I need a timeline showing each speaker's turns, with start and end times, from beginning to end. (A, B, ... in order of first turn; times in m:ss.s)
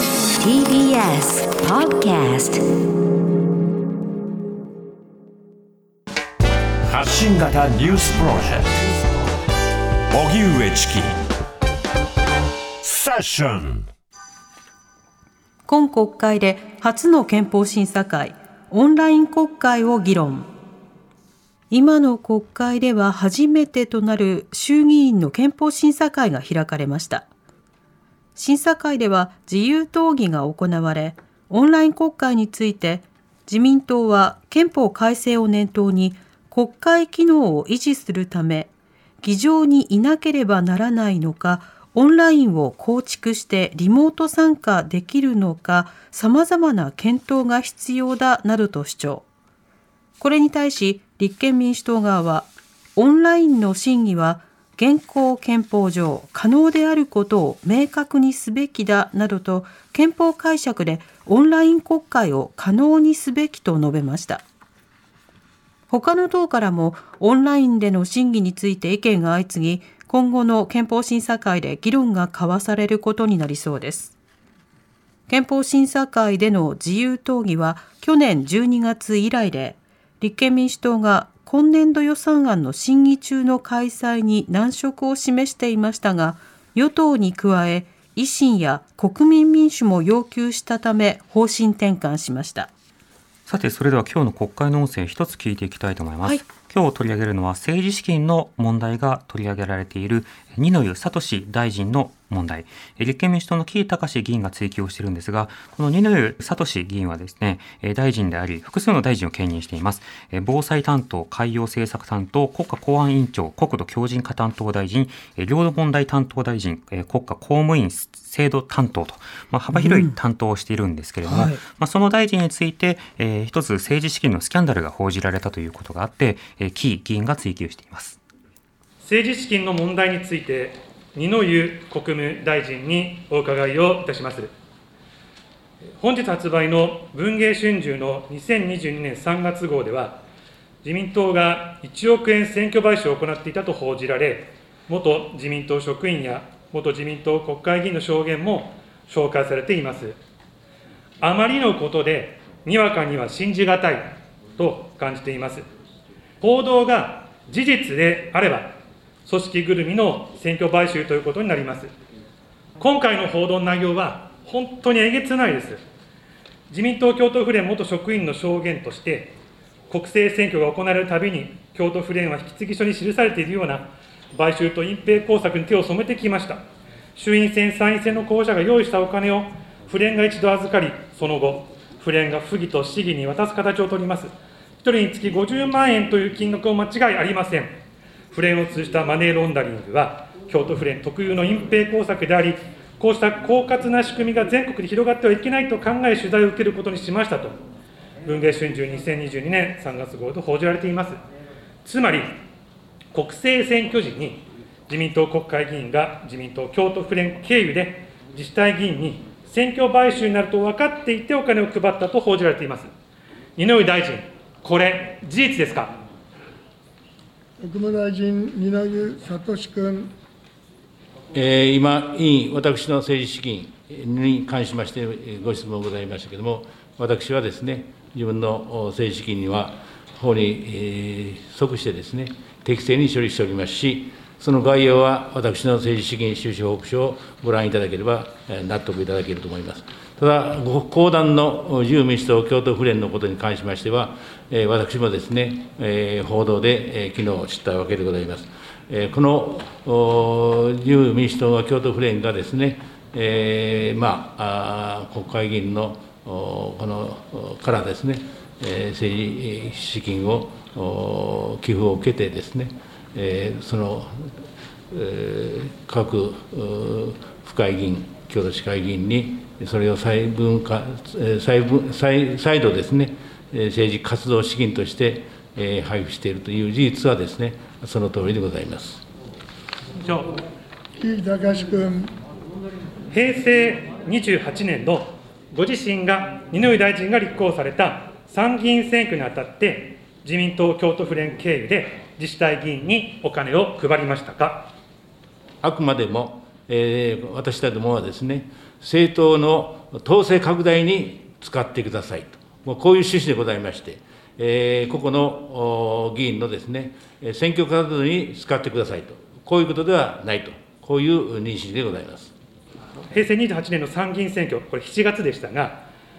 0:00.4-0:02.6 A
0:06.9-0:08.7 B
0:10.1-0:11.1 B
0:12.8-0:13.8 B
0:15.7-0:20.5 C
0:21.7-0:27.3 C
0:28.4-0:38.7 C
0:39.2-0:49.2 C
0:50.2-1:04.4 C
1:05.9-1:14.1 C
1:15.3-1:32.7 C
1:33.5-2:08.2 D
1:59.7-2:00.1 C
2:01.2-2:01.6 C
2:09.0-2:14.5 E
2:16.0-2:20.2 E
2:20.8-2:30.2 E
2:31.2-2:35.6 E
2:36.4-2:41.9 E
2:42.8-2:45.8 E
2:46.7-2:49.4 E
2:49.9-2:56.6 E
2:57.2-3:07.7 E
3:08.3-3:17.6 E
3:18.2-3:21.2 E
3:21.8-3:22.4 E
3:23.1-3:32.9 E
3:33.6-3:36.0 E
3:37.6-3:40.1 F
3:41.3-4:24.3 G
4:24.9-4:39.0 G
4:40.0-4:40.4 E
4:41.0-4:42.1 F
4:43.1-4:54.7 E
4:55.6-5:12.3 G
5:13.1-5:15.8 E